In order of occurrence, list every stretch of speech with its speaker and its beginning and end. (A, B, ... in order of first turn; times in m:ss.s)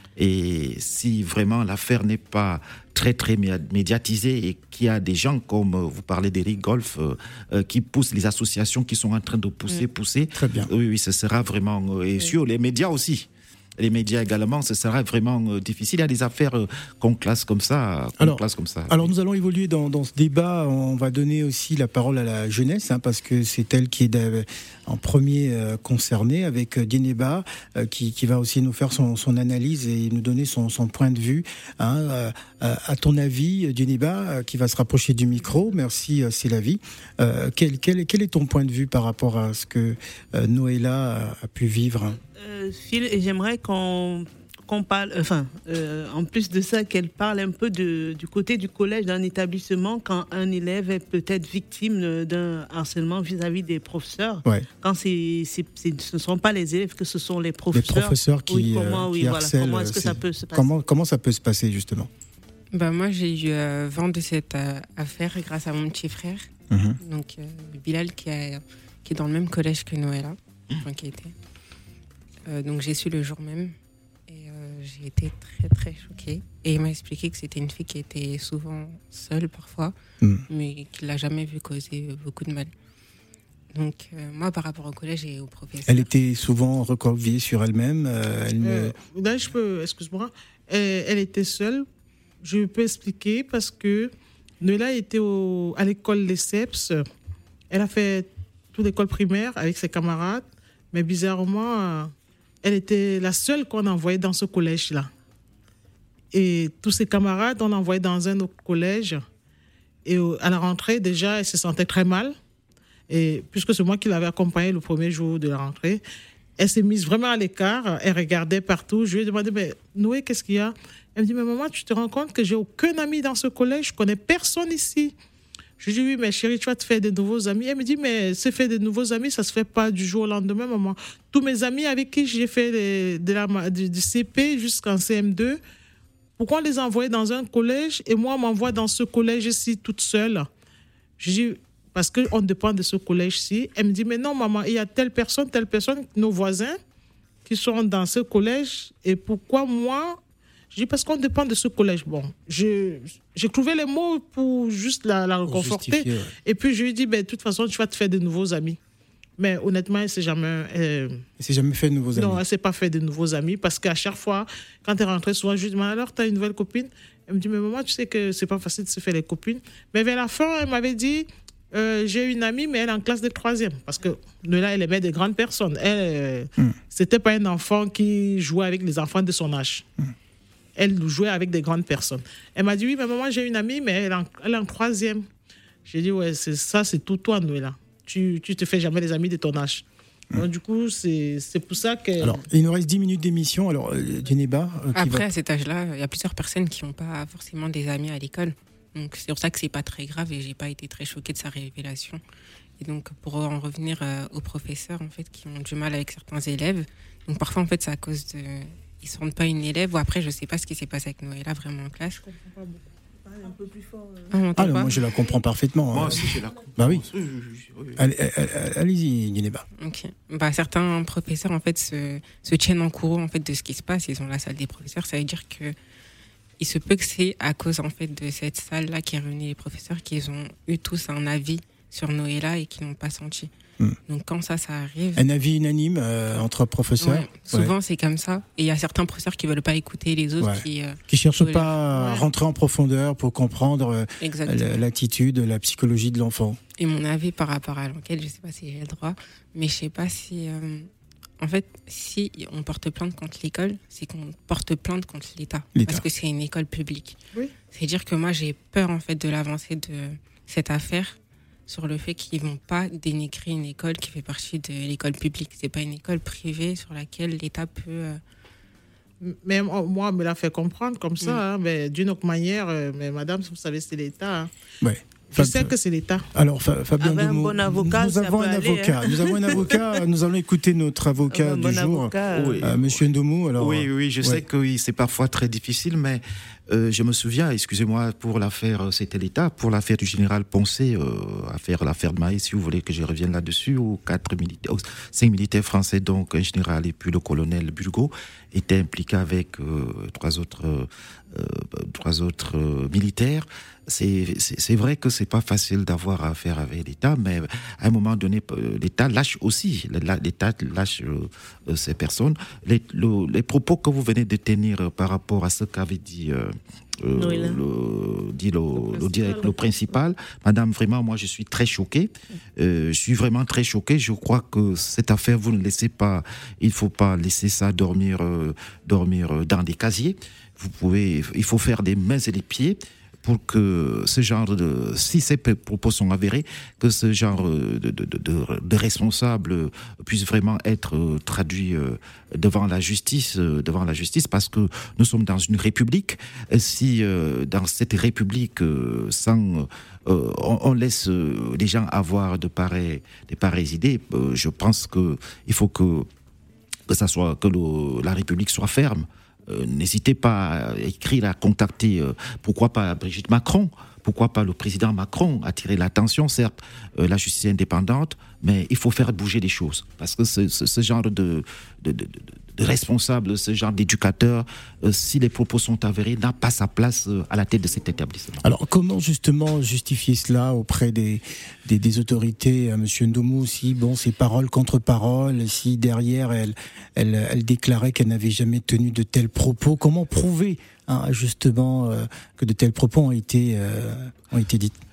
0:00.2-0:19.1 A
0:10.3-0:10.7 B
0:18.2-0:42.2 B
0:42.4-1:00.7 C
0:57.7-1:02.1 B
1:02.7-1:11.3 D
1:06.7-1:07.0 B
1:12.5-1:13.7 D
1:14.3-1:19.9 D
1:20.5-1:22.7 D
1:23.7-1:26.1 D
1:25.8-1:28.9 B
1:28.6-1:31.8 E
1:32.4-1:37.0 E
1:37.7-1:45.1 E
1:46.3-1:49.2 E
1:50.0-1:52.3 E
1:53.1-1:56.0 E
1:56.6-2:05.1 E
2:05.8-2:15.6 E
2:16.4-2:20.5 E
2:21.2-2:26.8 E
2:27.4-2:30.2 E
2:30.7-2:38.8 E
2:35.4-2:36.3 B
2:39.4-2:41.2 E
2:41.4-2:42.4 B
2:42.1-2:59.8 E
3:00.8-3:05.2 E
3:05.8-3:12.4 E
3:12.2-3:15.3 B
3:14.9-3:22.2 D
3:22.8-3:32.2 D
3:32.2-3:32.9 E
3:33.3-3:34.3 C
3:34.3-3:35.0 D
3:34.6-3:37.0 B
3:35.9-3:38.0 A
3:38.0-3:39.6 B
3:39.8-3:45.7 D
3:46.6-3:53.5 D
3:54.1-3:55.2 D
3:55.2-3:57.7 B
3:57.0-4:01.8 D
4:00.4-4:06.6 B
4:01.9-4:02.2 E
4:04.2-4:04.8 D
4:06.8-4:17.2 D
4:15.7-4:16.0 B
4:17.7-4:28.2 D
4:29.2-4:34.5 E
4:34.8-4:35.7 B
4:35.3-4:36.3 E
4:36.3-4:44.4 B
4:37.0-4:39.8 C
4:41.3-4:42.7 C
4:42.3-4:43.0 A
4:43.6-5:56.1 A
5:17.2-5:17.6 C
5:18.8-5:19.5 E
5:56.9-6:18.4 A
6:18.4-6:34.7 B